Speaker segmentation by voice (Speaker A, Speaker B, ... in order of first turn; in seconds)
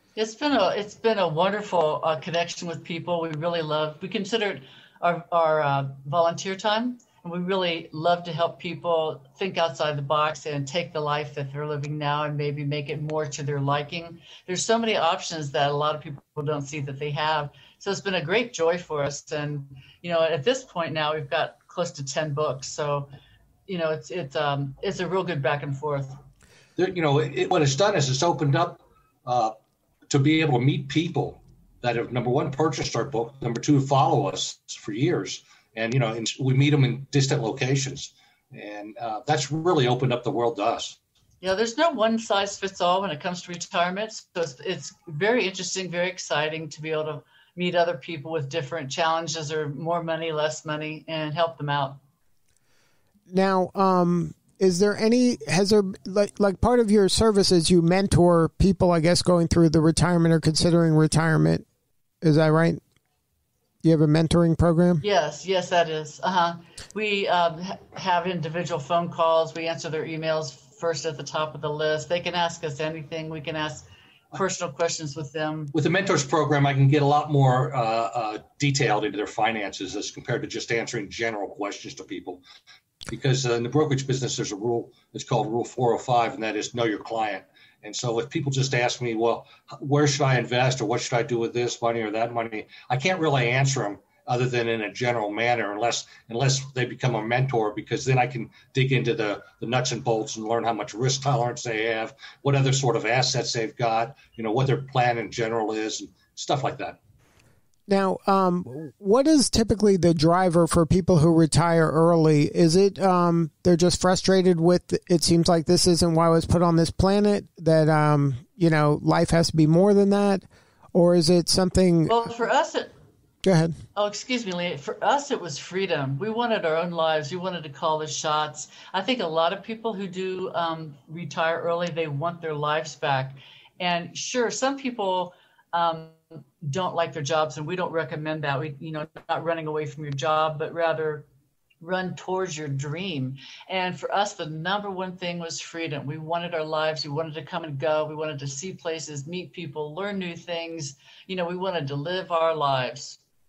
Speaker A: 0.1-23.1, 23.7-26.2, 41.4-52.0, 65.0-75.7, 122.1-122.9, 123.9-141.3, 141.8-153.2
Speaker B: 26.8-29.5, 30.1-41.0, 75.7-82.4, 83.1-107.0
Speaker C: 53.3-61.6, 62.2-62.8, 63.8-65.0, 107.9-122.2, 123.4-123.8